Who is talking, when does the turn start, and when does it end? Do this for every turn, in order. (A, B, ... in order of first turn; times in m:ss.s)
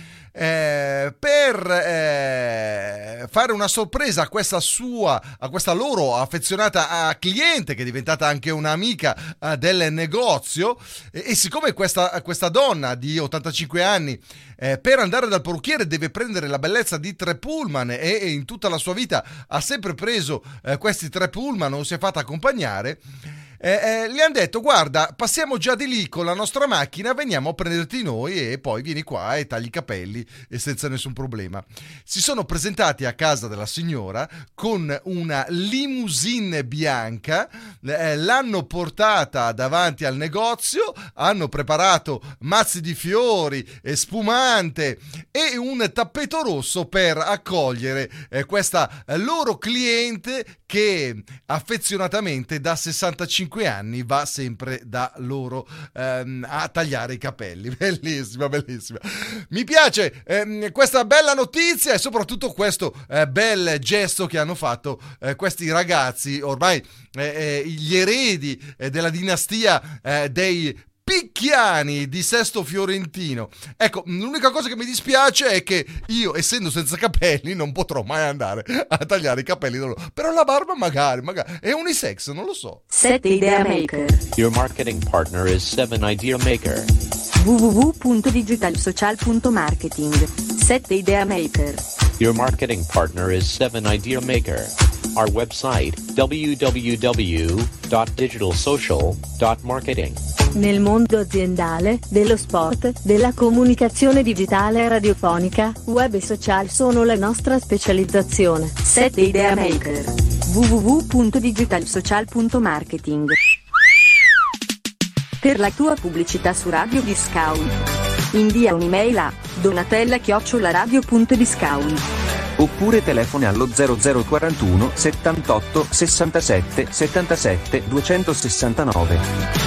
0:00.3-0:23.0 A
0:23.6-1:22.8 A
1:22.9-1:24.2 B
1:24.3-1:26.9 C
1:27.4-1:31.8 B
1:32.2-1:40.2 C
1:40.6-1:53.3 B
1:55.4-1:57.7 B
1:58.3-2:02.0 B
2:02.6-2:09.2 D